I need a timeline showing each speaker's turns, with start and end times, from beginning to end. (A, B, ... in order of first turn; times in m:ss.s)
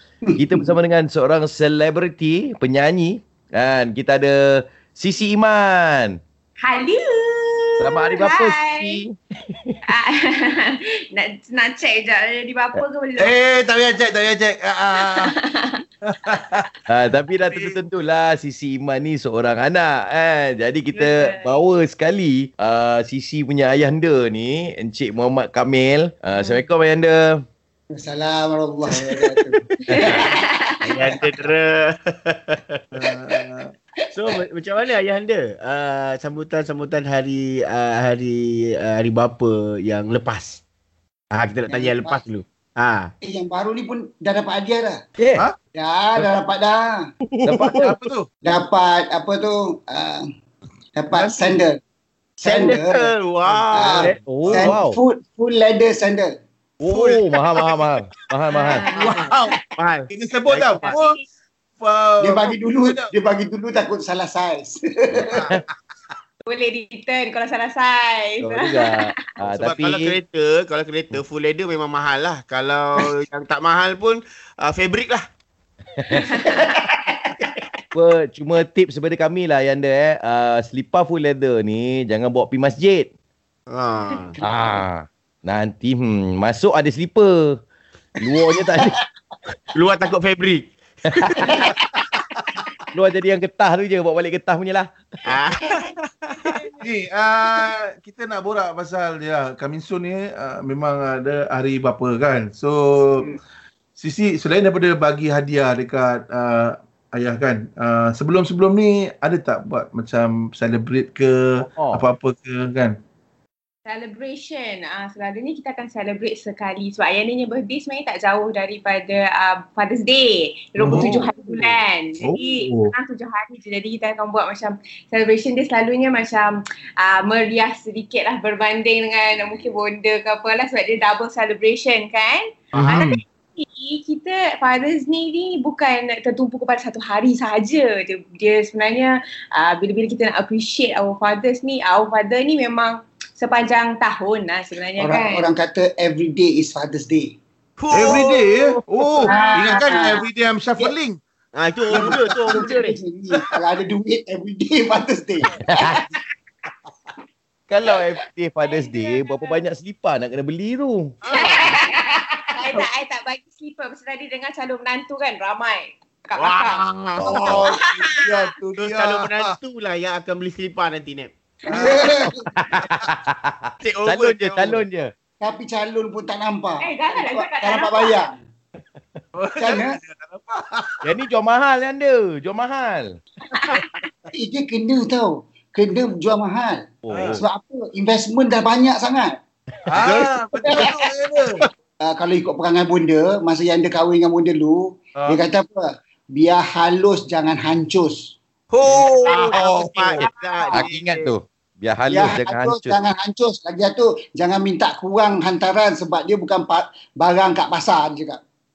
0:00.3-0:00.7 A
0:00.4-0:04.3 B
0:04.9-0:06.1 B
0:06.6-0:09.0 C
0:07.8-0:09.8 B
0:09.9-0:13.3 C
0:13.2-0:15.3 D
0:15.0-0:15.8 C
0:16.1-0:16.7 D
0:16.9-0:27.4 B
0:17.4-0:17.8 D
0:20.9-0:21.5 C
0:26.3-0:26.6 C
0:27.9-0:30.3 A
0:29.9-0:30.8 C
0:30.8-0:32.8 E
0:32.9-0:33.7 D
0:34.1-0:40.6 E
0:41.3-0:43.1 E
0:41.7-0:42.2 A
0:43.2-0:45.0 A
0:45.2-0:45.4 B
0:45.7-0:47.0 A
0:47.3-0:48.0 B
0:47.4-0:48.3 D
0:48.4-0:50.2 A
0:51.0-0:51.8 A
0:52.4-0:53.1 A
0:52.4-0:54.7 E
0:53.4-0:53.8 D
0:53.7-0:56.3 A
0:53.9-0:55.0 B
0:56.8-0:58.8 B
0:56.9-0:57.8 D
0:58.5-0:59.4 C
0:58.9-1:01.2 D
0:59.7-1:00.9 E
1:00.8-1:01.2 C
1:01.8-1:03.1 D
1:02.2-1:05.4 A
1:06.4-1:08.9 C
1:08.4-1:10.1 B
1:09.4-1:15.2 E
1:16.1-1:16.8 C
1:17.9-1:23.1 B
1:23.7-1:24.4 E
1:24.4-1:27.6 B
1:28.2-1:29.0 B
1:28.3-1:28.8 A
1:29.7-1:31.7 E
1:31.2-1:31.7 B
1:32.9-1:34.9 B
1:35.2-1:36.6 E
1:36.8-1:43.4 D
1:44.0-1:53.0 D
1:51.6-1:52.0 B
1:53.8-2:25.4 C
2:00.8-2:01.2 D
2:00.9-2:01.2 B
2:02.2-2:02.9 D
2:12.7-2:13.1 D
2:25.0-2:27.3 A
2:27.8-2:28.4 E
2:27.9-2:31.2 D
2:29.2-2:30.2 C
2:29.2-2:30.2 A
2:31.5-2:33.0 E
2:31.9-2:32.6 D
2:31.9-2:35.9 A
2:35.6-2:36.0 B
2:37.7-2:41.1 B
2:38.6-2:39.6 C
2:41.2-2:41.7 E
2:41.3-2:46.8 C
2:46.4-2:47.7 E
2:47.2-2:47.6 B
2:47.2-2:49.6 D
2:47.6-2:48.4 C
2:48.8-2:51.3 E
2:51.7-2:53.1 D
2:51.7-2:52.4 A
2:52.6-2:55.1 B
2:53.8-2:54.8 E
2:55.4-2:58.4 A
2:56.8-2:58.2 C
2:59.3-3:01.0 D
2:59.6-3:00.0 A
3:01.0-3:03.2 B
3:03.5-3:03.9 C
3:04.3-3:09.3 A
3:07.0-3:07.4 B
3:07.1-3:07.4 D
3:09.9-3:11.6 D
3:10.1-3:11.0 A
3:12.0-3:18.3 A
3:18.7-3:21.3 E
3:18.9-3:20.3 D
3:20.2-3:20.8 C
3:20.6-3:23.0 B
3:22.1-3:28.4 A